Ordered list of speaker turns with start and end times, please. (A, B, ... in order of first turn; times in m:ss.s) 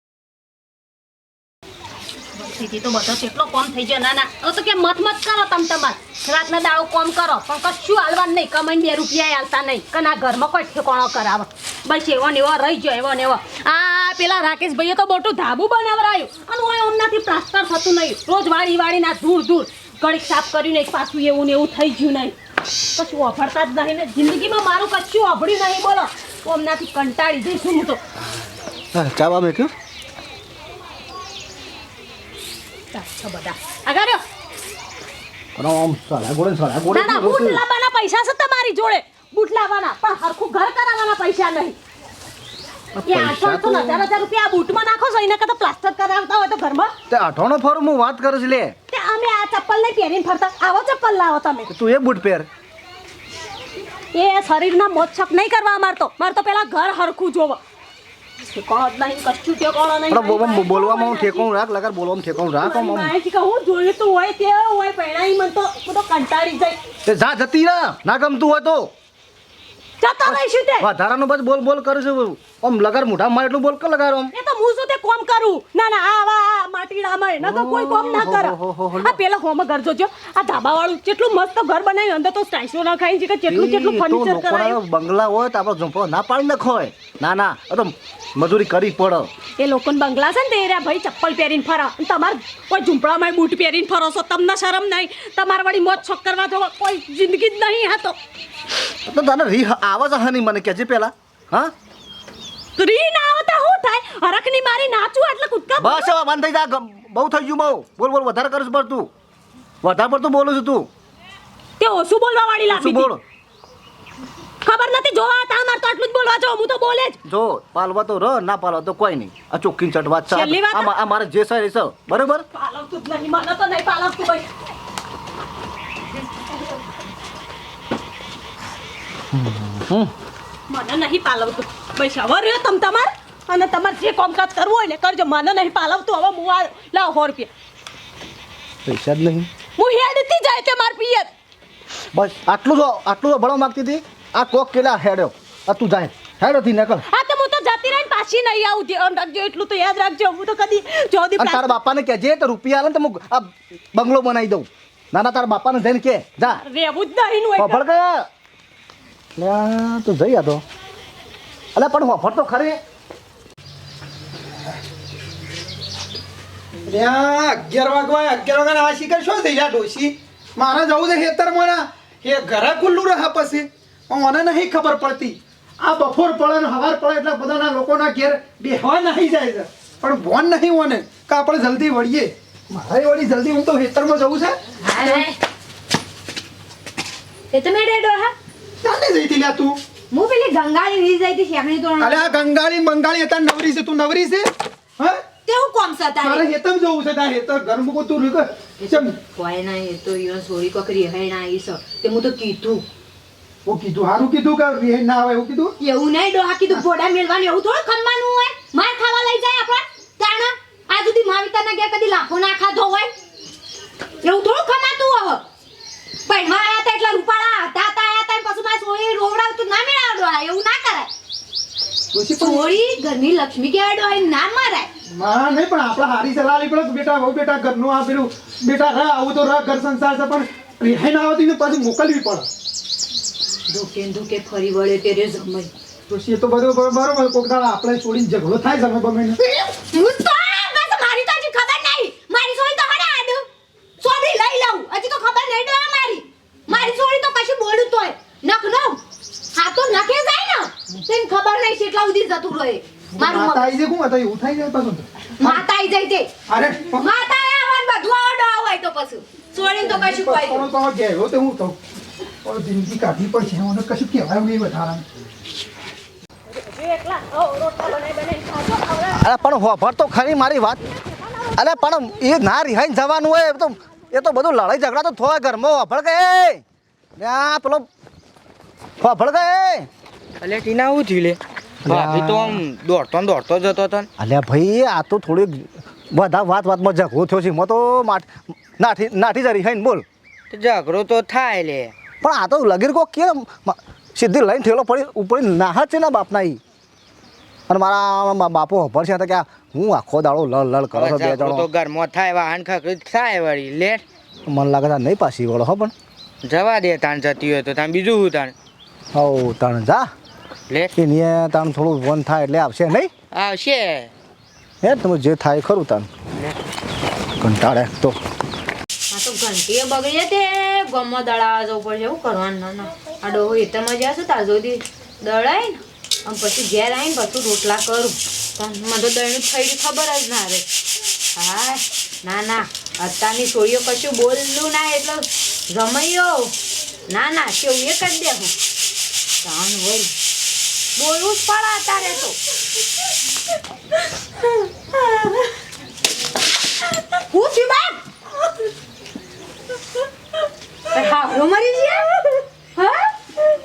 0:02.4-0:22.4 A
0:23.0-0:28.0 A
0:28.9-0:29.7 B
0:32.9-0:34.2 A
0:35.6-0:37.6 B
0:36.9-0:41.8 A
0:43.0-0:44.0 B
0:43.0-0:46.9 A
0:47.1-0:48.8 B
0:48.9-0:51.7 A
0:51.7-0:52.5 B
0:54.1-0:57.6 A
0:58.5-1:01.5 A
1:00.1-1:03.1 B
1:02.6-1:06.8 A
1:07.1-1:08.9 B
1:10.0-1:10.9 A
1:10.2-1:14.3 B
1:14.3-1:24.8 A
1:17.4-1:19.2 B
1:23.5-1:29.3 B
1:29.6-1:38.2 A
1:39.1-1:41.7 B
1:42.8-1:46.1 A
1:45.8-1:49.1 B
1:49.8-1:50.9 B
1:51.8-1:53.1 A
1:52.7-1:53.2 B
1:54.6-1:57.2 A
1:57.2-2:02.5 B
2:00.3-2:01.0 A
2:02.5-2:04.5 A
2:09.3-2:10.1 B
2:10.7-2:17.5 A
2:18.9-2:19.5 B
2:19.8-2:21.3 A
2:22.1-2:27.0 B
2:27.1-2:31.7 A
2:31.4-2:36.6 B
2:36.4-2:37.8 A
2:37.6-2:38.3 B
2:39.4-2:40.6 B
2:41.8-2:42.8 B
2:46.9-3:05.2 C
3:04.8-3:05.4 D
3:07.5-3:08.3 D
3:08.8-3:09.8 C
3:10.1-3:12.4 D
3:12.0-3:15.2 C
3:15.4-3:16.5 D
3:16.2-3:19.2 C
3:18.8-3:22.8 D
3:23.6-3:25.7 C
3:25.8-3:33.1 D
3:34.2-3:35.4 D
3:36.3-3:41.1 D
3:42.1-3:42.8 C
3:42.4-3:44.9 D
3:45.1-3:52.5 C
3:53.7-3:55.7 D
3:56.1-3:59.4 C
3:59.4-4:03.4 D
4:04.0-4:09.0 D
4:09.5-4:13.7 D
4:13.2-4:15.6 C
4:15.4-4:16.3 D
4:16.5-4:17.1 C
4:17.0-4:20.7 D
4:19.8-4:21.8 C
4:22.4-4:25.1 C
4:26.5-4:29.2 A
4:29.1-4:30.8 B
4:30.9-4:32.1 A
4:31.6-4:36.6 B
4:37.2-4:37.9 B
4:39.0-4:39.9 B
4:40.4-4:44.1 E
4:41.8-4:42.6 B
4:44.2-4:50.0 B
4:50.5-4:51.9 E
4:52.2-4:56.6 B
4:57.7-5:01.7 B
5:00.9-5:04.0 E
5:04.5-5:05.9 B
5:06.4-5:08.6 E
5:09.1-5:10.1 B
5:11.0-5:13.1 B
5:13.3-5:14.1 E
5:14.8-5:16.1 B
5:17.4-5:18.2 B
5:19.1-5:30.7 D
5:31.4-5:36.5 D
5:37.1-5:38.5 D
5:39.4-5:40.1 D
5:41.0-5:42.4 D
5:47.3-5:48.0 D
5:50.9-5:52.1 D
5:52.8-5:53.1 D